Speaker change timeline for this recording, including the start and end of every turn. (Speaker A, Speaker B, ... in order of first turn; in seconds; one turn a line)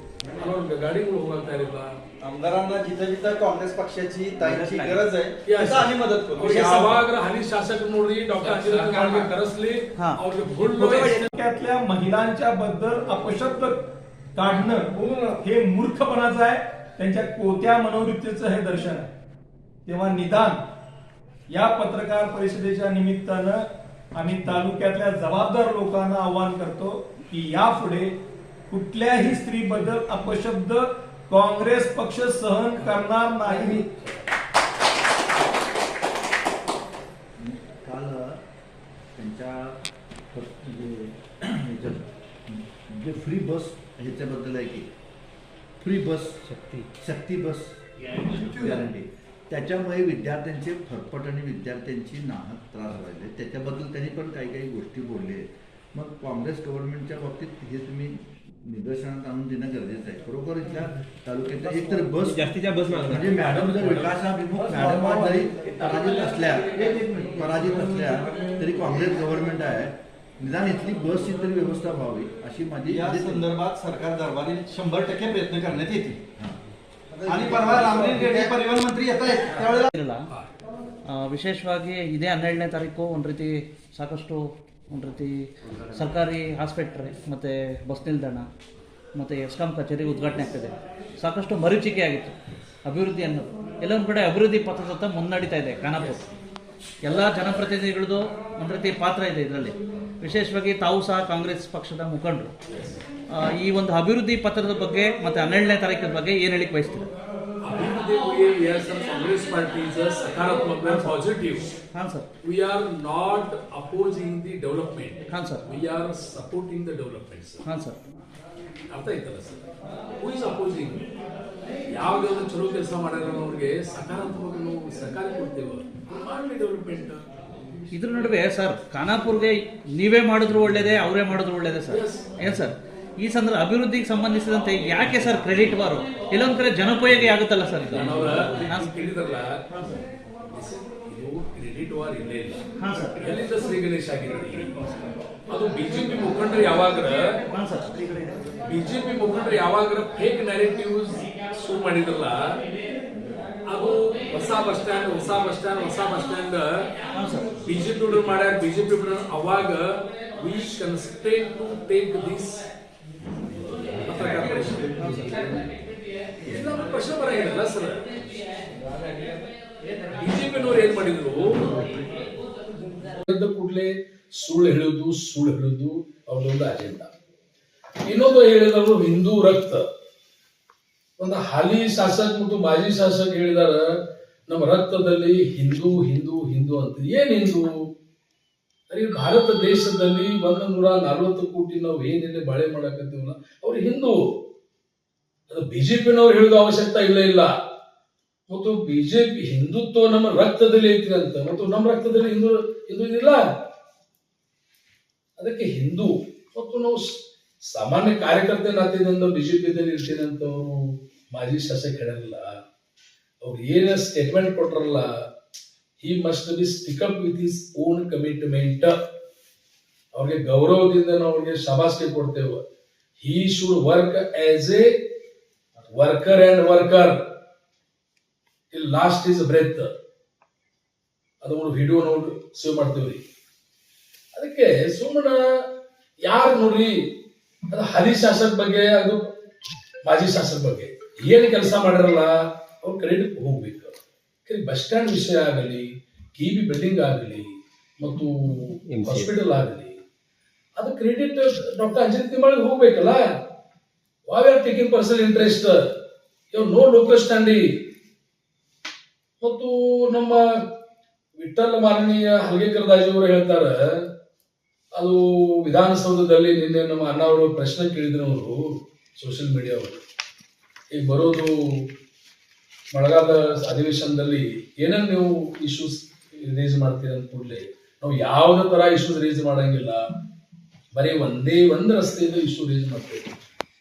Speaker A: 0.4-1.9
Speaker B: 2.2-7.0
Speaker C: 4.4-5.0
Speaker A: 5.4-11.3
Speaker D: 10.6-13.8
Speaker D: 14.3-19.1
Speaker D: 19.9-20.6
Speaker D: 21.5-23.6
Speaker D: 24.1-28.1
Speaker D: 28.7-33.9
Speaker E: 37.4-38.4
Speaker E: 39.2-39.8
Speaker E: 40.3-44.9
Speaker E: 45.8-46.4
Speaker C: 46.5-46.9
Speaker E: 47.0-73.5
Speaker A: 63.2-64.2
Speaker B: 72.8-76.2
Speaker B: 77.3-79.9
Speaker C: 79.9-80.3
Speaker C: 81.1-88.5
Speaker C: 89.2-96.2
Speaker A: 95.9-96.3
Speaker C: 97.0-102.5
Speaker A: 102.7-103.0
Speaker C: 103.3-107.1
Speaker A: 107.6-111.7
Speaker C: 110.8-111.3
Speaker C: 111.8-112.3
Speaker A: 112.4-117.6
Speaker C: 115.3-115.7
Speaker C: 117.6-118.0
Speaker A: 118.9-119.6
Speaker A: 120.2-121.0
Speaker A: 121.9-127.2
Speaker C: 127.9-138.9
Speaker A: 131.9-132.5
Speaker A: 137.9-139.6
Speaker A: 140.5-142.6
Speaker C: 142.8-143.2
Speaker A: 143.2-147.3
Speaker C: 147.5-147.9
Speaker A: 148.7-152.4
Speaker A: 153.7-156.7
Speaker C: 157.1-157.5
Speaker A: 157.6-162.7
Speaker A: 163.9-165.4
Speaker A: 166.5-168.1
Speaker A: 170.1-171.9
Speaker A: 173.2-177.1
Speaker A: 178.1-179.8
Speaker A: 181.2-183.9
Speaker A: 184.5-187.7
Speaker A: 188.9-194.2
Speaker A: 195.5-197.5
Speaker A: 198.5-203.4
Speaker A: 205.4-212.5
Speaker A: 213.4-215.1
Speaker A: 216.0-218.9
Speaker A: 220.1-222.6
Speaker A: 223.2-224.9
Speaker A: 225.9-227.2
Speaker A: 228.7-229.9
Speaker A: 231.4-233.2
Speaker A: 234.3-235.4
Speaker A: 236.2-237.1
Speaker A: 237.7-239.2
Speaker A: 240.1-243.9
Speaker A: 244.4-250.0
Speaker A: 250.8-253.2
Speaker A: 254.3-255.8
Speaker A: 256.5-257.7
Speaker A: 259.4-260.4
Speaker A: 261.4-263.8
Speaker A: 264.9-270.0
Speaker A: 270.9-271.9
Speaker A: 272.9-280.0
Speaker A: 280.9-283.3